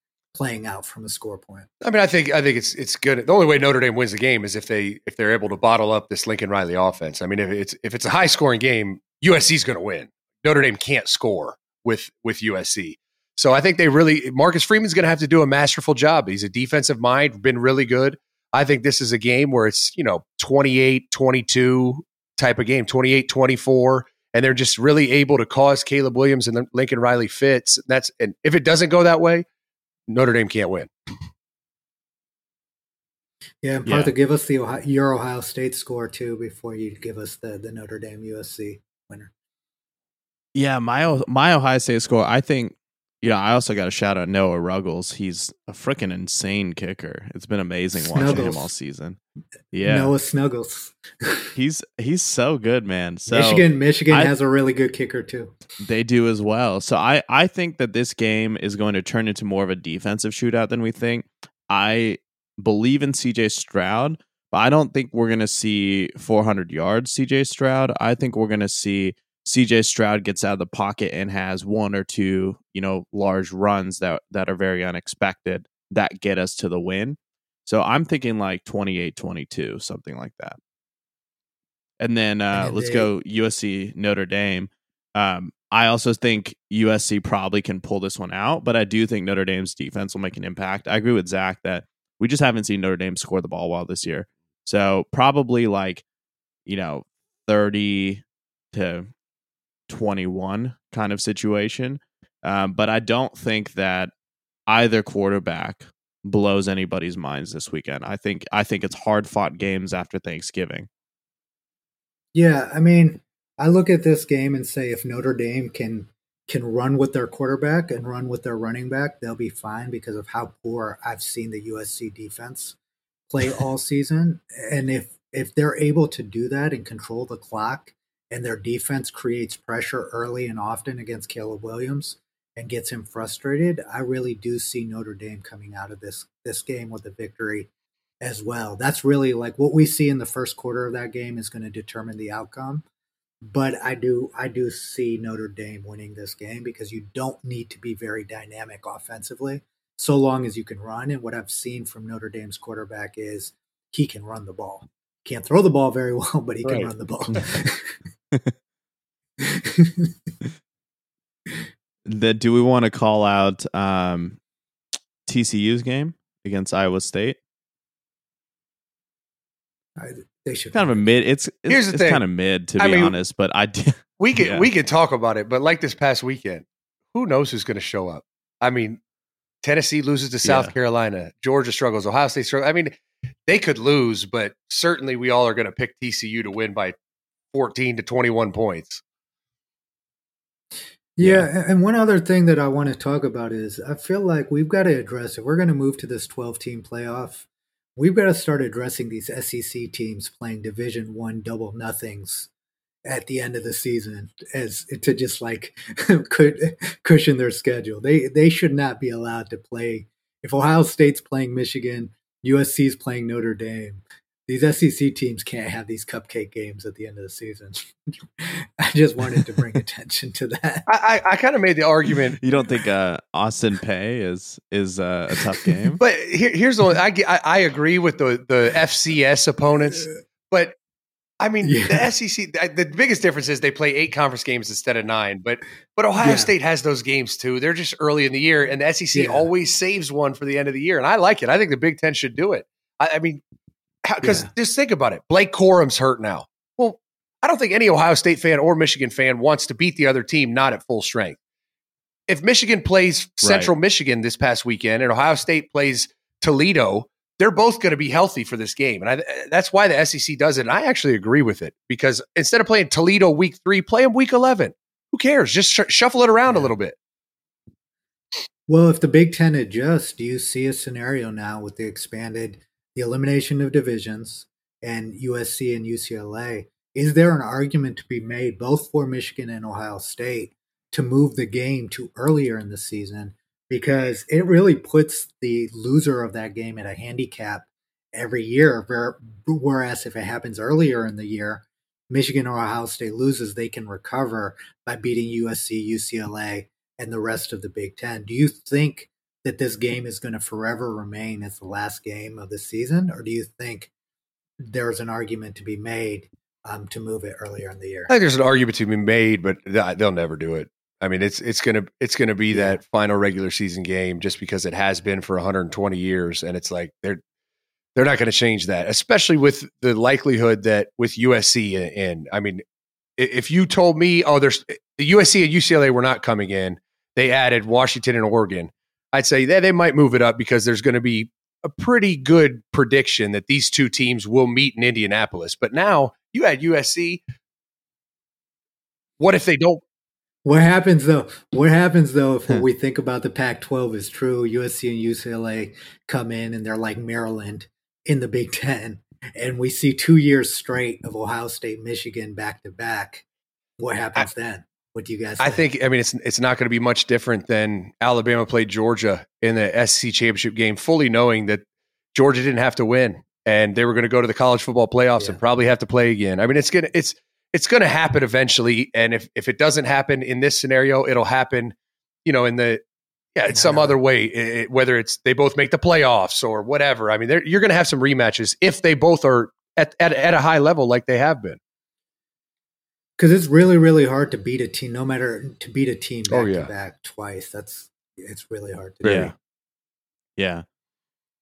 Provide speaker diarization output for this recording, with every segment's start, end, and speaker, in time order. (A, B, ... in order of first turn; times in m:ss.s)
0:00.3-0:01.7 A
0:01.8-0:29.4 B
0:30.1-0:30.9 B
0:33.6-0:39.3 A
0:33.9-0:34.1 C
0:40.6-0:49.2 C
0:48.0-0:48.7 A
0:49.7-0:50.1 C
0:49.8-0:51.5 A
0:51.6-0:54.3 C
0:53.3-0:55.6 A
0:55.8-1:20.6 C
1:22.0-1:36.0 C
1:22.5-1:23.1 A
1:36.7-1:39.1 C
1:39.9-1:44.1 C
1:44.7-1:50.9 C
1:52.4-2:02.8 A
2:03.3-2:17.7 A
2:18.2-2:22.8 A
2:23.4-2:38.0 A
2:36.6-2:36.9 B
2:39.4-2:40.1 A
2:42.1-2:44.4 C
2:45.3-2:47.4 C
2:50.0-2:51.0 A
2:50.7-2:54.7 C
2:51.7-2:52.2 B
2:52.8-2:53.1 B
2:54.2-2:59.0 B
2:59.6-3:02.9 B
3:00.4-3:00.7 C
3:03.5-3:07.0 B
3:07.5-3:09.0 B
3:11.2-3:22.5 A
3:11.2-3:11.5 C
3:23.0-3:40.9 A
3:40.9-3:42.4 B
3:42.4-3:46.0 C
3:46.0-3:50.8 B
3:51.4-4:03.4 B
3:51.6-3:52.1 A
3:56.2-3:56.5 A
3:59.1-3:59.5 A
4:04.0-4:11.4 B
4:04.2-4:04.5 A
4:12.3-4:27.0 B
4:13.4-4:13.7 C
4:28.7-5:03.9 A
5:04.6-5:08.1 A
5:08.1-5:17.2 B
5:12.5-5:12.8 A
5:18.0-5:22.6 B
5:23.2-5:37.2 B
5:39.2-5:39.8 B
5:40.4-5:53.2 A
5:53.8-5:55.6 A
5:55.4-6:12.8 B
6:13.4-6:21.6 B
6:13.5-6:14.0 A
6:23.2-6:29.3 A
6:26.3-6:26.7 B
6:29.0-6:29.3 B
6:29.0-6:29.3 C
6:30.4-6:30.6 C